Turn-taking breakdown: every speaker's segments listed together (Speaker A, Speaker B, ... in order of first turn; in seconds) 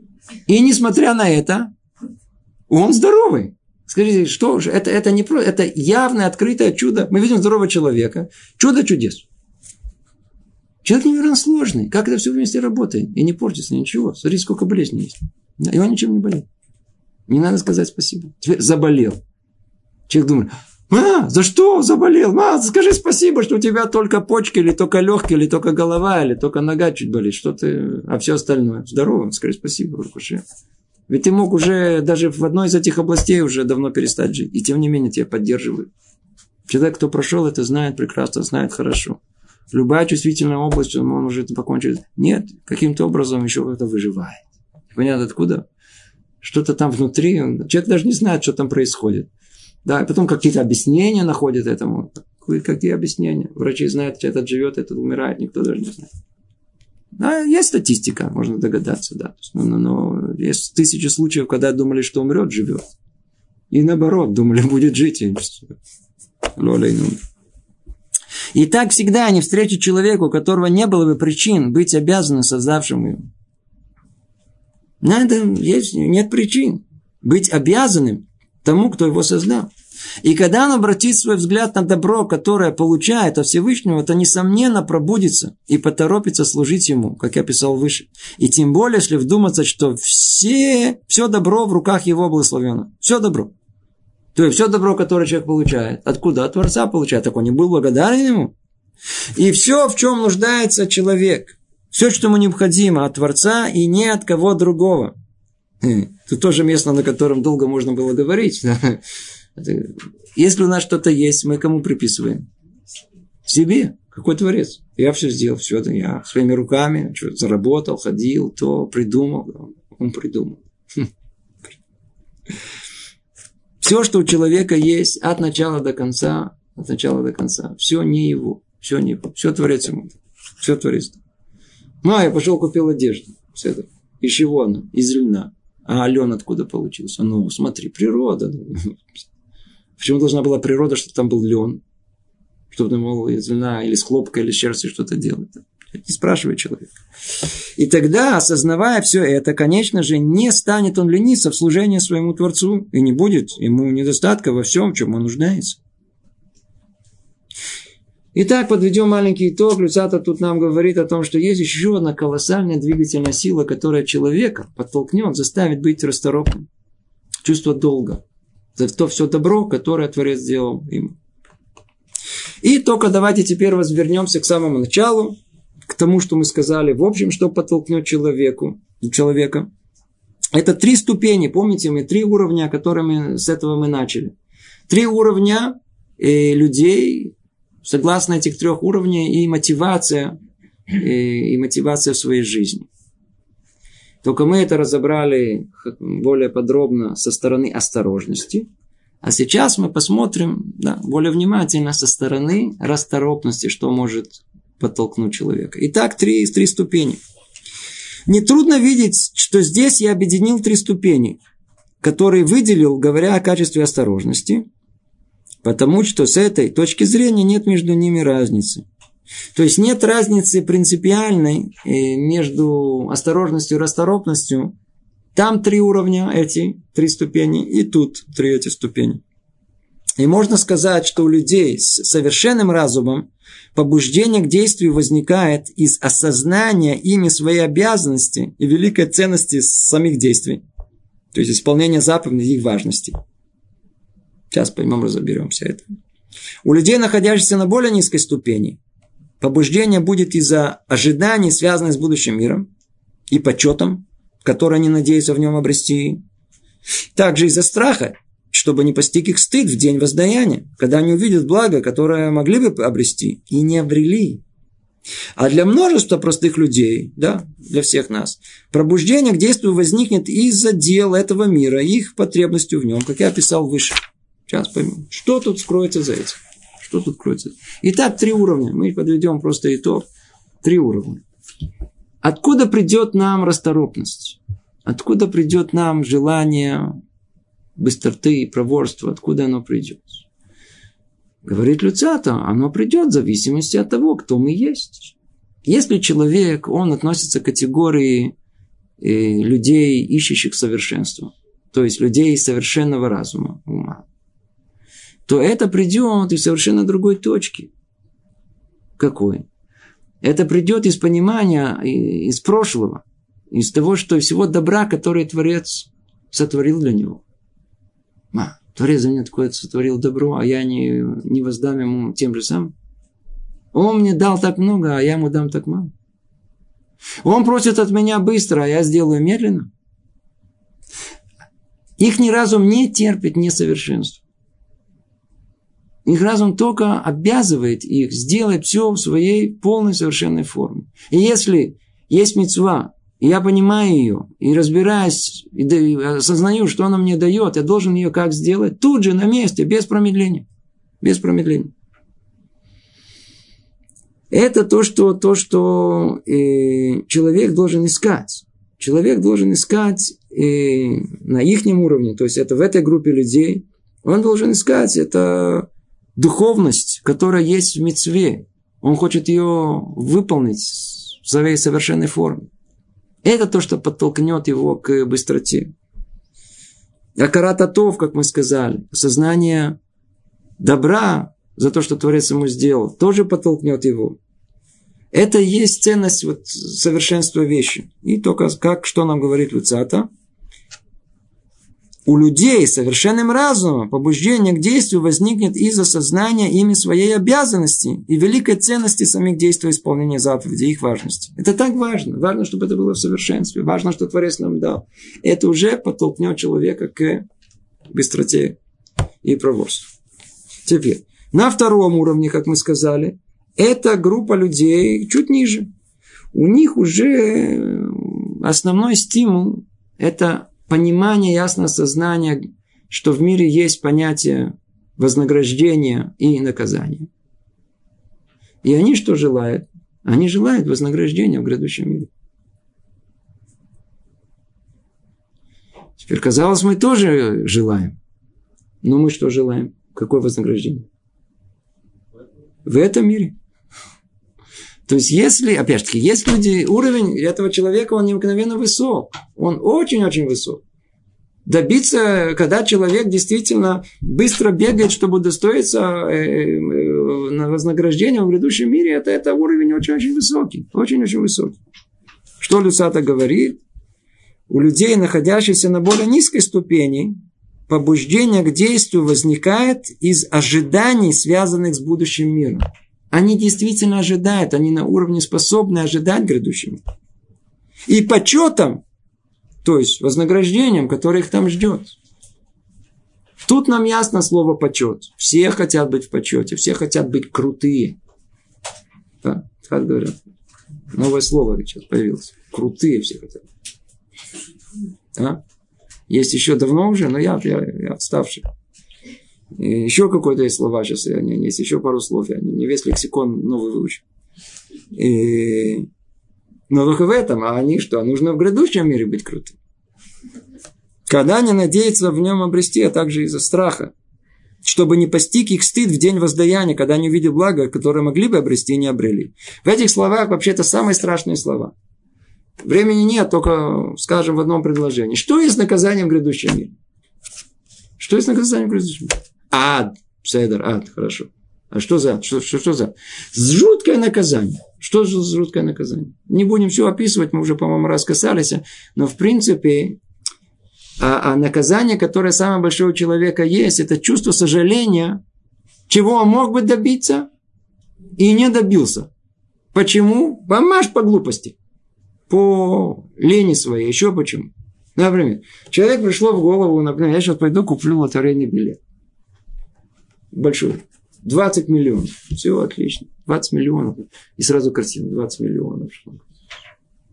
Speaker A: 0.5-1.7, 2.7-9.2, 10.8-16.4, 17.3-19.2, 20.1-30.4, 31.1-35.9, 36.7-39.2, 39.7-45.6, 46.4-49.3, 49.8-56.1, 57.2-62.8, 63.7-65.7, 66.6-67.2, 68.5-73.2, 75.0-79.7, 80.2-93.5, 94.3-98.5, 99.3-105.1, 105.8-109.0, 109.5-112.5, 113.4-121.0, 123.8-131.2, 132.0-139.2, 140.0-141.8, 142.7-146.9, 147.8-155.8, 158.3-166.7, 167.4-168.2, 168.8-171.2, 172.6-175.3, 175.9-179.7, 180.5-184.3, 184.9-187.3, 187.8-190.3, 190.9-192.9, 194.2-198.7, 199.2-207.2, 208.3-211.4, 212.0-214.6, 215.6-218.8, 219.5-224.7, 225.3-229.2, 230.2-240.6, 241.3-243.1, 244.5-245.8, 246.6-248.8, 249.4-252.7, 253.3-256.2, 257.1-264.4, 265.4-280.0, 280.6-281.2, 282.2-287.0, 287.8-290.2, 291.4-298.3, 299.0-304.0, 305.3-307.7, 309.0-309.4, 310.2-317.2, 318.3-322.7, 323.7-325.9, 327.2-329.7, 332.0-334.2, 336.0-350.4, 351.0-351.7, 354.3-372.5, 373.2-375.7, 377.2-379.8, 380.6-384.2, 385.1-390.1, 392.1-407.2, 407.9-408.6, 409.2-409.9, 410.6-415.7, 416.3-427.1, 428.6-432.1, 436.0-437.9, 438.8-440.9, 442.6-443.3, 444.9-450.6, 451.4-461.6, 462.4-463.6, 464.5-467.1, 467.7-476.8, 477.9-478.8, 479.6-481.9, 483.4-488.0, 489.2-490.2, 490.9-493.4, 495.1-495.4, 496.1-498.4, 499.6-504.0, 504.9-505.9, 506.7-509.6, 511.1-513.9, 514.6-521.7, 522.6-526.7, 528.0-540.0, 541.0-545.2, 545.9-547.3, 548.2-549.1, 549.7-551.5, 552.3-558.8, 560.3-566.2